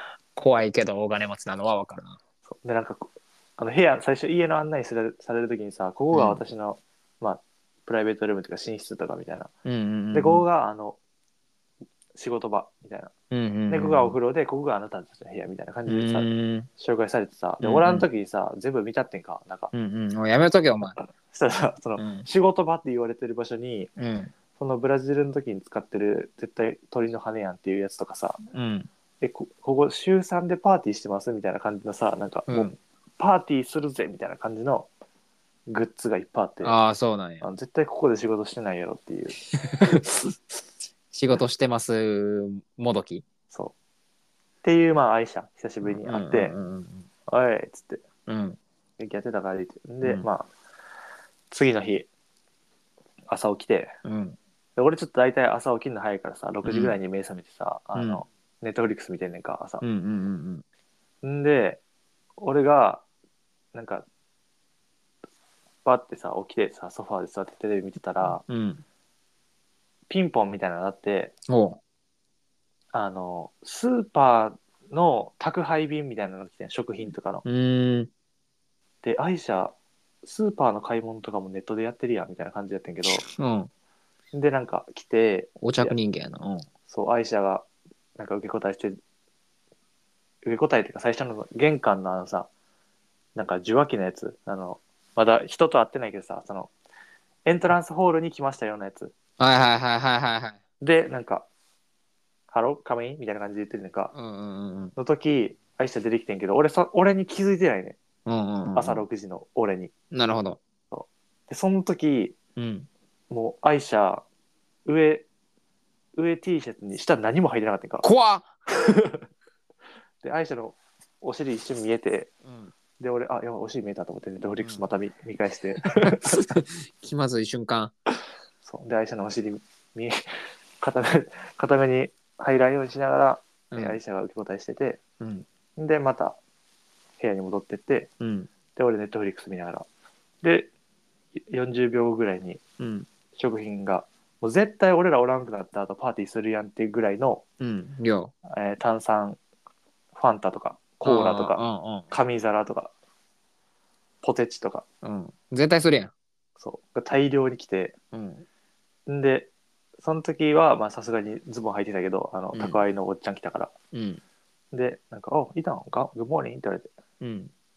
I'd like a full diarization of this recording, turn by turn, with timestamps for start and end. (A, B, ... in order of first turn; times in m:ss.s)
0:00.3-0:02.2 A
0:02.5-0:09.5 B
0:06.1-0:06.4 A
0:09.6-0:10.4 A
0:10.1-0:11.0 B
0:12.1-0:13.1 B
0:13.3-0:14.2 A
0:13.7-0:19.7 B
0:15.9-0:16.7 A
0:17.6-0:18.1 A
0:19.7-0:21.0 A
0:21.0-0:23.9 B
0:22.0-0:22.2 A
0:24.0-0:24.3 A
0:24.5-0:28.4 B
0:28.5-0:28.9 A
0:29.2-0:34.9 B
0:32.5-0:32.8 A
0:35.7-0:36.8 B
0:36.6-0:37.5 A
0:37.4-0:39.4 B
0:39.6-0:40.1 A
0:41.1-0:43.2 A
0:44.6-0:46.5 B
0:45.8-0:47.1 A
0:47.3-0:48.0 B
0:48.2-0:48.6 A
0:49.0-0:50.5 B
0:51.5-0:52.1 B
0:53.3-0:53.9 B
0:54.0-0:54.4 A
0:54.8-0:59.8 B
0:56.6-0:57.0 A
0:57.9-0:58.2 A
0:59.8-1:00.6 A
1:01.2-1:01.8 B
1:02.4-1:03.0 B
1:03.7-1:04.0 B
1:05.8-1:08.4 B
1:08.2-1:08.8 A
1:10.1-1:11.3 B
1:11.5-1:11.8 A
1:12.9-1:17.4 B
1:17.4-1:18.1 A
1:19.0-1:23.2 B
1:23.0-1:23.7 A
1:24.3-1:26.0 B
1:25.6-1:26.6 A
1:26.9-1:27.6 B
1:28.2-1:29.0 B
1:30.4-1:32.5 B
1:33.4-1:36.7 B
1:37.4-1:39.1 B
1:39.4-1:40.6 A
1:40.8-1:41.5 B
1:42.5-1:44.1 B
1:44.1-1:44.9 A
1:45.0-1:48.0 B
1:48.2-1:49.0 A
1:48.7-1:49.9 B
1:50.1-1:50.6 A
1:50.9-1:52.4 B
1:52.6-1:52.9 A
1:53.3-1:54.2 B
1:54.9-1:55.3 B
1:56.2-1:58.1 B
1:58.0-1:58.5 A
1:58.7-1:59.2 B
2:00.2-2:02.3 B
2:02.4-2:02.7 A
2:03.0-2:06.6 B
2:05.8-2:07.9 A
2:08.6-2:10.2 B
2:10.8-2:15.0 B
2:13.7-2:14.0 A
2:15.2-2:15.4 A
2:15.8-2:16.4 B
2:17.2-2:18.1 B
2:18.2-2:18.5 A
2:18.8-2:19.9 B
2:20.4-2:20.7 B
2:21.4-2:22.6 B
2:22.8-2:23.1 A
2:23.4-2:27.4 B
2:27.6-2:28.3 A
2:28.5-2:29.4 B
2:30.1-2:32.9 B
2:31.0-2:32.1 A
2:34.2-2:34.8 B
2:35.0-2:36.1 A
2:36.6-2:37.9 B
2:38.1-2:38.4 A
2:39.1-2:39.5 B
2:40.0-2:43.7 B
2:42.5-2:42.8 A
2:43.9-2:44.2 A
2:44.7-2:46.9 B
2:47.2-2:47.5 A